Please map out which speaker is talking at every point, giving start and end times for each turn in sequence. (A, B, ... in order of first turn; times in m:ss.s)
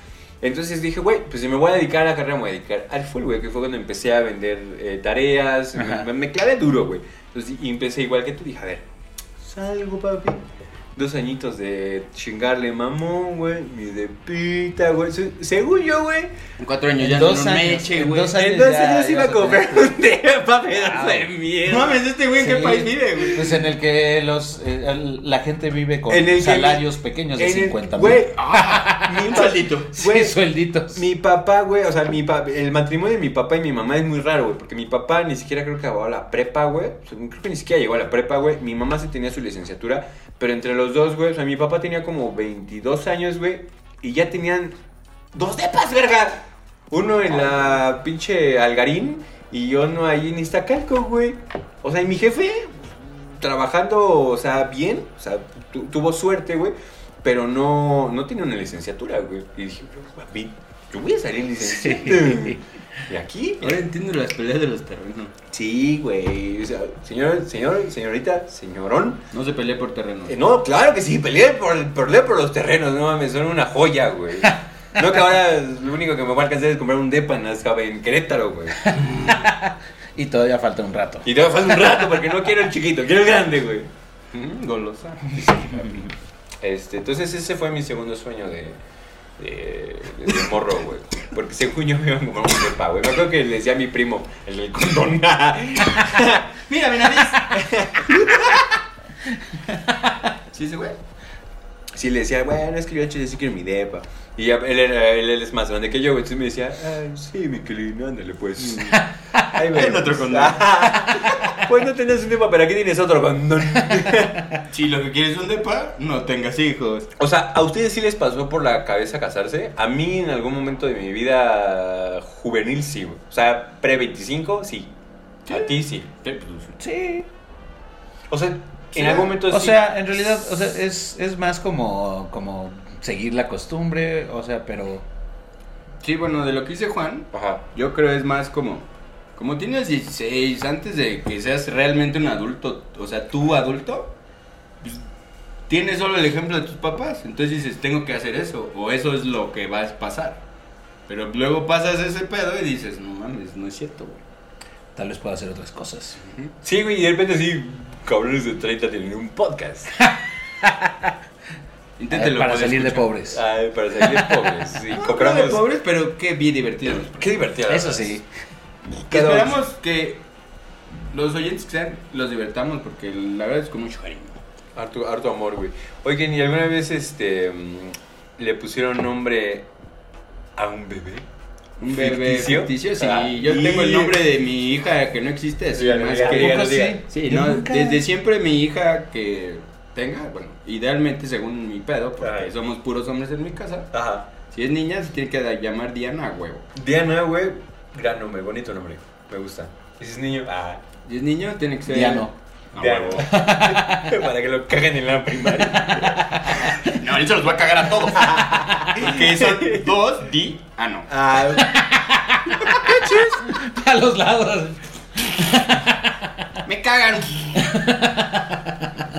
0:00.4-0:08.8 A
0:05.8-0:06.1 B
0:09.4-0:10.4 A
0:11.0-0:16.4 A
0:16.6-0:18.4 C
0:17.0-0:19.9 B
0:18.3-0:22.1 A
0:20.7-0:21.3 B
0:21.6-0:23.7 C
0:22.4-0:31.0 B
0:26.1-0:26.8 A
0:27.4-0:28.4 A
0:28.3-0:29.9 C
0:29.1-0:30.4 A
0:30.9-0:44.8 A
0:45.3-1:03.8 A
1:01.6-1:02.6 B
1:03.6-1:05.3 C
1:05.5-1:09.2 A
1:09.3-1:10.4 C
1:10.3-1:18.8 A
1:18.8-1:21.3 B
1:21.2-1:23.9 A
1:24.3-1:26.1 C
1:26.6-1:28.8 A
1:29.4-1:36.6 A
1:36.7-1:38.7 C
1:37.3-1:38.6 A
1:40.5-1:41.0 C
1:42.0-1:49.0 A
1:48.6-1:48.9 C
1:48.9-1:49.6 B
1:49.5-1:54.6 A
1:49.7-1:50.7 C
1:54.7-1:57.1 C
1:57.2-2:04.9 A
2:05.5-2:06.8 C
2:05.5-2:06.1 A
2:06.8-2:07.3 B
2:08.3-2:09.9 A
2:09.0-2:09.3 C
2:09.4-2:15.0 B
2:16.0-2:24.1 C
2:17.3-2:17.6 A
2:25.7-2:30.4 C
2:31.1-2:34.2 C
2:35.0-2:36.2 B
2:36.2-2:36.5 C
2:36.6-2:39.9 A
2:40.6-2:40.9 B
2:42.0-2:43.1 C
2:42.1-2:43.4 B
2:43.3-2:45.6 A
2:44.0-2:44.3 B
2:44.9-2:47.3 C
2:46.9-2:48.2 A
2:47.7-2:48.2 B
2:49.1-2:49.6 A
2:49.1-2:50.2 C
2:51.1-2:54.4 C
2:54.8-2:59.7 A
3:00.6-3:01.3 A
3:01.8-3:13.9 C
3:01.9-3:04.2 A
3:05.7-3:07.0 A
3:06.2-3:08.0 B
3:12.2-3:12.5 A
3:13.9-3:14.3 A
3:14.5-3:16.7 C
3:16.8-3:20.8 A
3:21.1-3:23.3 C
3:21.9-3:22.3 B
3:22.8-3:26.8 A
3:23.2-3:24.2 B
3:25.7-3:26.7 B
3:26.5-3:31.1 C
3:28.1-3:29.9 A
3:31.1-3:31.8 A
3:31.6-3:36.3 B
3:32.7-3:33.5 A
3:36.6-3:37.8 C
3:37.6-3:39.0 B